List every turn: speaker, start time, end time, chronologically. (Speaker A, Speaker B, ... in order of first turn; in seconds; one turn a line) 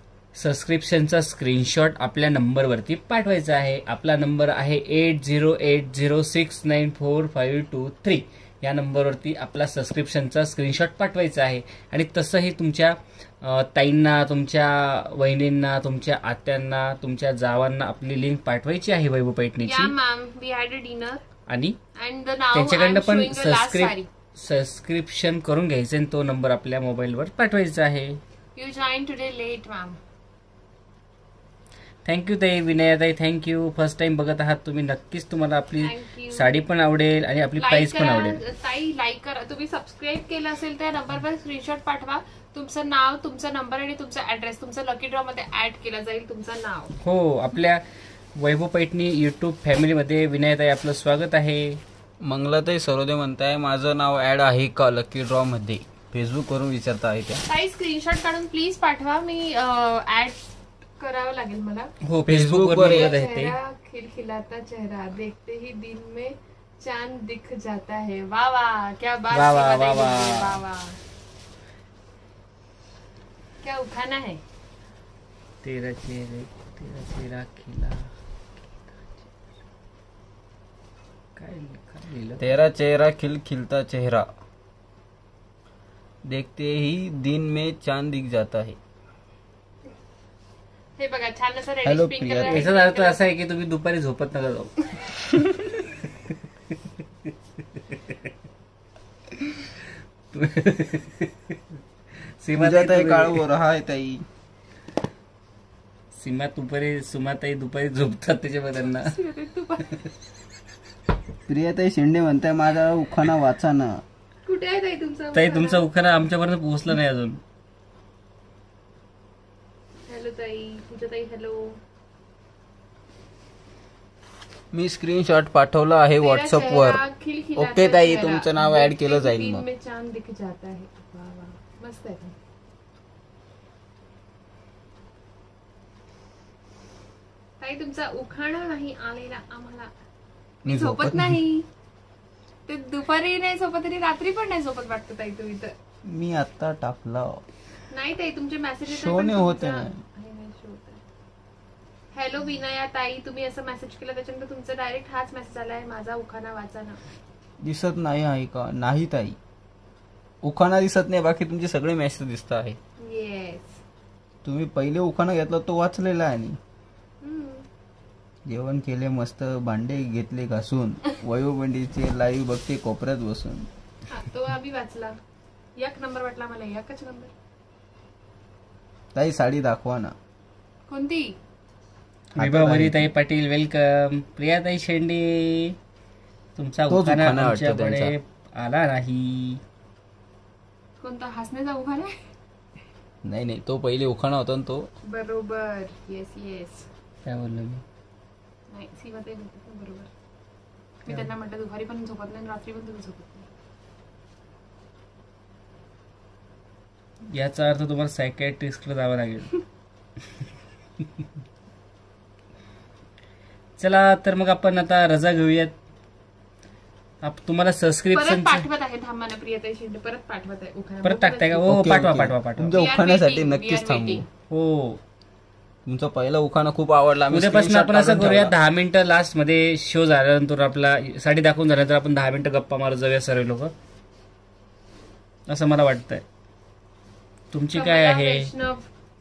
Speaker A: 0.3-19.9
Speaker B: 19.6-21.2
Speaker A: 21.5-21.8
Speaker B: 21.9-24.1
Speaker A: 22.5-28.2
Speaker B: 28.6-30.0
Speaker A: 32.0-38.4
Speaker B: 35.8-36.6
Speaker B: 37.6-46.9
Speaker A: 47.0-51.8
Speaker C: 52.2-57.4
Speaker B: 57.5-61.9
Speaker A: 62.0-63.5
Speaker C: 62.3-63.1
Speaker B: 62.8-71.0
Speaker A: 69.3-70.6
Speaker B: 73.6-74.4
Speaker A: 75.6-78.1
Speaker A: 78.8-79.2
Speaker A: 81.3-82.5
Speaker C: 82.4-84.3
Speaker C: 86.2-88.8
Speaker B: 91.0-93.2
Speaker C: 91.8-92.7
Speaker A: 92.4-96.0
Speaker A: 100.3-101.6
Speaker A: 102.4-103.4
Speaker C: 102.5-104.2
Speaker A: 106.1-109.2
Speaker B: 108.8-110.0
Speaker C: 111.5-114.0
Speaker B: 114.4-115.8
Speaker A: 115.3-117.4
Speaker B: 120.1-121.8
Speaker C: 124.7-127.0
Speaker B: 126.2-132.3
Speaker C: 127.5-129.7
Speaker B: 137.6-139.9
Speaker C: 140.6-141.4
Speaker B: 140.6-141.7
Speaker B: 142.7-145.7
Speaker C: 146.1-147.4
Speaker B: 147.9-151.0
Speaker C: 148.9-150.0
Speaker B: 152.1-157.0
Speaker C: 157.6-159.4
Speaker C: 160.4-162.8
Speaker B: 163.0-163.8
Speaker C: 164.4-166.6
Speaker B: 167.2-167.7
Speaker C: 168.4-173.7
Speaker B: 174.1-175.2
Speaker B: 175.8-177.3
Speaker C: 179.1-180.1
Speaker B: 180.9-181.4
Speaker C: 182.3-183.1
Speaker A: 182.3-185.8
Speaker A: 186.6-189.6
Speaker C: 186.9-188.1
Speaker B: 191.0-192.3
Speaker C: 193.2-194.9
Speaker B: 195.0-196.9
Speaker A: 197.2-197.8
Speaker B: 198.7-200.1
Speaker B: 201.1-203.5
Speaker A: 207.3-209.6
Speaker A: 213.8-215.7
Speaker A: 217.2-218.7
Speaker B: 218.1-221.7
Speaker A: 221.0-222.8
Speaker C: 221.6-224.2
Speaker B: 222.7-224.2
Speaker A: 224.5-225.0
Speaker C: 225.8-228.6
Speaker A: 227.3-233.7
Speaker A: 235.5-236.2
Speaker A: 237.5-238.5
Speaker B: 237.7-238.9